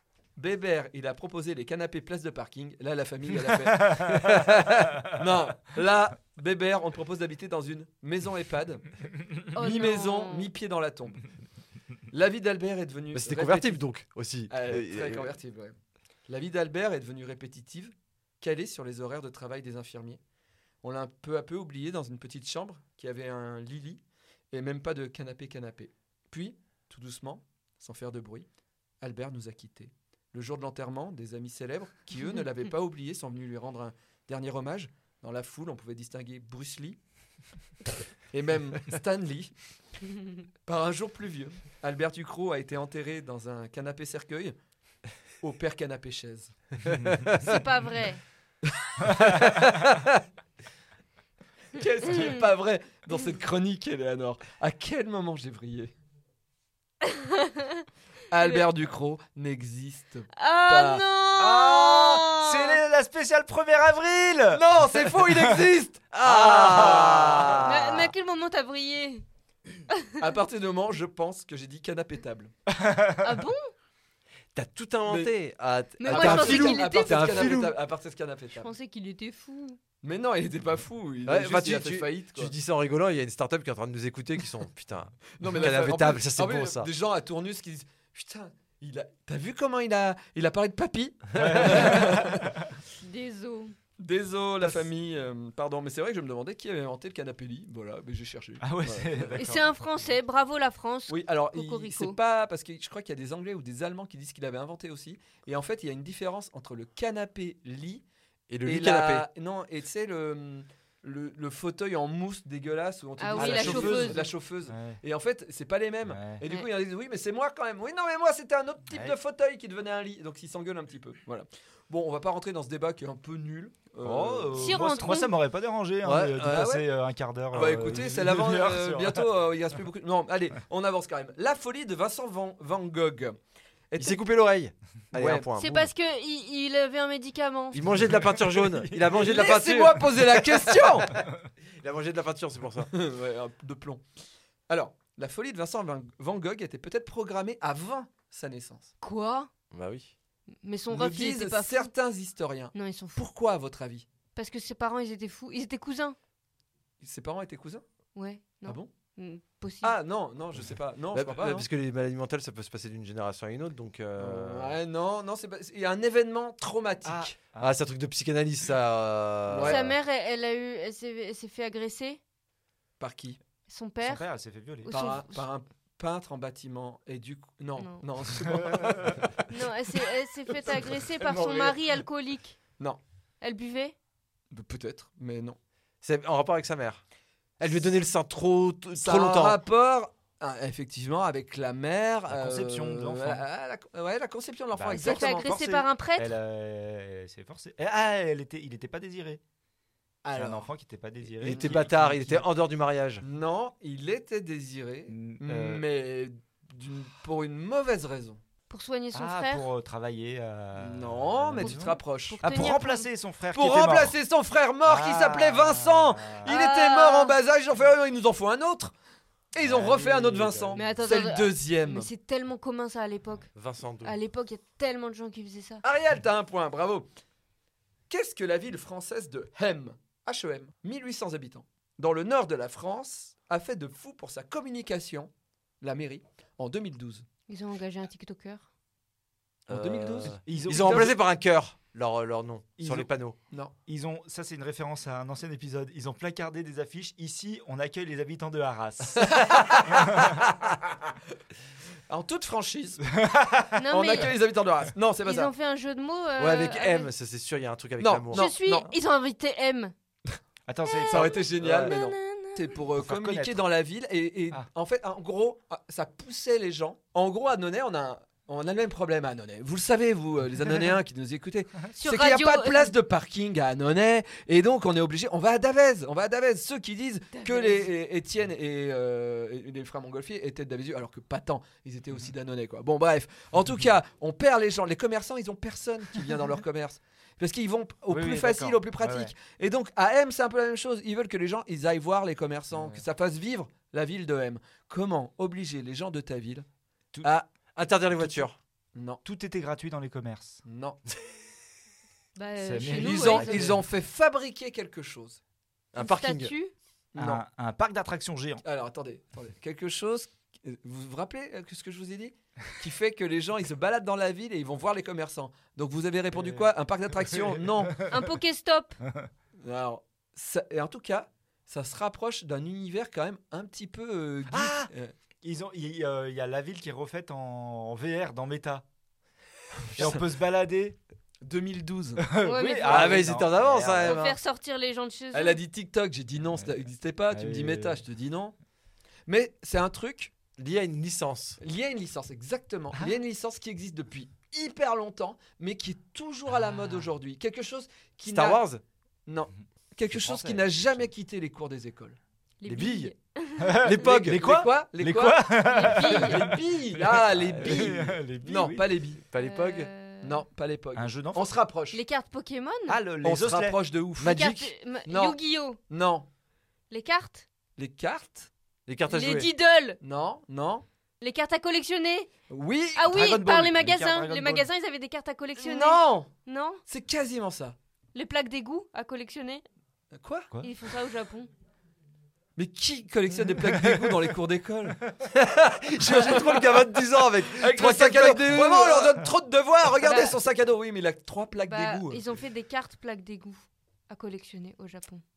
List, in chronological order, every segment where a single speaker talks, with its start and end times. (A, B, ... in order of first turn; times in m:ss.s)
0:00.4-0:08.8 A
0:03.5-0:04.5 B
0:09.5-0:10.5 C
0:09.5-0:11.2 A
0:12.1-0:13.8 A
0:13.1-0:15.3 D
0:14.5-0:15.8 A
0:16.3-0:20.2 A
0:20.8-0:28.5 A
0:29.0-0:37.0 A
0:38.3-0:39.5 A
0:40.6-0:44.6 A
0:45.4-0:47.5 A
0:47.4-0:48.2 C
0:48.6-0:50.2 A
0:51.7-0:55.9 A
0:52.0-0:52.5 C
0:57.0-0:58.6 C
0:58.3-1:01.0 A
1:00.4-1:02.8 C
1:01.4-1:05.7 B
1:04.5-1:07.7 A
1:06.1-1:08.1 D
1:07.6-1:09.2 C
1:10.1-1:12.5 A
1:12.7-1:13.4 B
1:13.2-1:13.7 C
1:14.5-1:17.8 D
1:15.1-1:15.3 A
1:16.0-1:17.6 C
1:16.0-1:18.7 A
1:18.5-1:19.8 C
1:20.0-1:22.5 A
1:21.2-1:26.9 D
1:25.4-1:32.5 A
1:31.3-1:32.5 B
1:33.0-1:33.7 C
1:34.0-1:39.4 A
1:38.6-1:39.7 B
1:39.3-1:42.2 C
1:41.1-1:48.0 A
1:48.5-1:49.2 D
1:48.6-2:04.8 A
1:53.2-1:54.2 C
1:53.4-1:54.2 D
1:53.5-1:54.1 B
1:54.6-1:55.0 B
1:56.0-1:56.4 B
1:58.9-1:59.2 B
2:04.0-2:09.3 B
2:04.6-2:05.3 C
2:06.0-2:06.7 D
2:06.4-2:06.8 A
2:07.5-2:13.4 A
2:13.9-2:14.2 A
2:14.0-2:15.9 D
2:15.1-2:15.4 A
2:15.6-2:17.8 C
2:17.7-2:20.2 D
2:17.9-2:19.4 B
2:19.2-2:21.1 A
2:20.2-2:21.2 B
2:21.8-2:22.9 D
2:22.9-2:24.0 A
2:24.7-2:28.9 A
2:29.0-2:29.5 C
2:29.7-2:30.1 D
2:30.6-2:31.9 C
2:30.9-2:34.1 A
2:32.7-2:33.2 C
2:34.3-2:36.2 C
2:37.0-2:37.8 A
2:38.1-2:40.0 C
2:38.6-2:38.9 A
2:39.8-2:41.6 A
2:41.1-2:44.7 D
2:44.2-2:47.4 A
2:47.0-2:47.8 B
2:47.6-2:49.9 D
2:49.5-2:49.8 A
2:49.6-2:52.2 C
2:53.0-2:53.4 A
2:53.7-2:54.3 C
2:54.0-2:55.0 B
2:54.8-2:55.4 C
2:54.9-2:59.3 A
2:57.8-2:58.0 C
2:58.6-2:59.2 B
2:59.5-3:02.6 C
3:01.2-3:01.6 A
3:03.4-3:03.9 C
3:04.5-3:05.6 A
3:06.0-3:07.0 D
3:07.6-3:09.6 D
3:08.9-3:15.5 A
3:12.3-3:13.4 B
3:14.7-3:19.4 B
3:14.9-3:16.4 C
3:20.2-3:20.7 A
3:20.4-3:22.4 B
3:21.4-3:21.9 A
3:21.4-3:23.2 D
3:23.2-3:28.4 A
3:25.1-3:25.8 B
3:28.7-3:29.6 C
3:29.1-3:34.2 B
3:30.8-3:32.4 A
3:31.6-3:33.1 C
3:33.5-3:38.9 A
3:34.8-3:36.5 B
3:36.4-3:37.4 C
3:39.5-3:42.1 A
3:39.6-3:40.8 B
3:39.7-3:40.7 D
3:40.7-3:45.8 C
3:43.5-3:44.2 D
3:45.8-3:47.1 A
3:48.1-3:55.3 A
3:55.8-3:57.2 A
3:57.5-3:58.7 C
3:59.7-4:01.1 A
3:59.7-4:03.4 D
4:00.4-4:01.2 B
4:02.8-4:03.1 B
4:03.8-4:10.4 B
4:09.2-4:10.2 A
4:12.1-4:13.1 A
4:13.1-4:14.2 B
4:13.7-4:14.3 C
4:13.9-4:15.5 A
4:15.2-4:17.1 C
4:16.4-4:18.9 D
4:18.0-4:18.9 A
4:18.3-4:19.9 C
4:20.7-4:21.3 B
4:20.8-4:22.8 C
4:21.1-4:56.6 A
4:21.6-4:21.9 D
4:23.0-4:23.6 B
4:32.0-4:33.0 C
4:37.3-4:37.9 C
4:48.1-4:49.3 B
4:52.7-4:53.0 B
4:57.2-4:57.5 A
4:57.8-4:58.6 D
4:58.2-4:58.5 B
4:58.9-4:59.2 A
4:59.2-5:00.6 B
5:00.6-5:01.0 A
5:02.4-5:03.7 C
5:02.6-5:03.8 B
5:02.9-5:05.4 A
5:05.9-5:06.5 D
5:06.0-5:06.7 C
5:07.1-5:07.4 A
5:07.2-5:08.6 B
5:08.6-5:18.0 A
5:16.3-5:18.3 B
5:18.1-5:19.0 C
5:19.6-5:25.1 A
5:24.5-5:24.9 B
5:25.4-5:28.8 B
5:29.9-5:30.2 A
5:29.9-5:31.0 B
5:31.4-5:32.3 A
5:32.2-5:34.2 B
5:32.4-5:33.2 C
5:32.9-5:34.4 D
5:32.9-5:33.2 A
5:34.0-5:35.6 C
5:35.3-5:38.5 A
5:36.5-5:38.0 B
5:39.3-5:40.3 A
5:40.6-5:41.6 D
5:41.6-5:48.6 A
5:42.9-5:43.2 B
5:46.5-5:47.1 B
5:48.3-5:48.8 D
5:49.2-5:52.2 A
5:50.1-5:51.1 B
5:52.6-5:53.8 C
5:52.6-5:53.1 D
5:53.6-5:59.0 B
5:53.8-5:54.6 D
5:54.0-5:59.2 A
5:55.6-5:56.6 C
5:57.6-5:58.0 D
5:59.3-5:59.9 D
5:59.4-6:00.4 C
6:00.2-6:02.0 A
6:01.0-6:01.6 B
6:01.9-6:03.0 C
6:02.9-6:03.8 B
6:03.2-6:04.3 A
6:04.2-6:04.7 D
6:04.2-6:05.8 C
6:05.0-6:06.2 A
6:06.9-6:07.4 C
6:07.8-6:08.5 A
6:08.9-6:09.5 D
6:09.1-6:10.0 C
6:10.0-6:10.8 A
6:11.2-6:12.3 C
6:12.5-6:13.7 A
6:12.9-6:16.8 C
6:13.7-6:14.7 B
6:15.6-6:16.3 A
6:16.9-6:17.8 A
6:18.1-6:19.6 C
6:20.1-6:20.5 A
6:20.6-6:21.5 C
6:22.6-6:25.0 A
6:23.4-6:24.3 B
6:25.3-6:29.1 D
6:26.0-6:26.8 A
6:27.5-6:32.2 A
6:30.0-6:30.4 C
6:31.6-6:35.2 C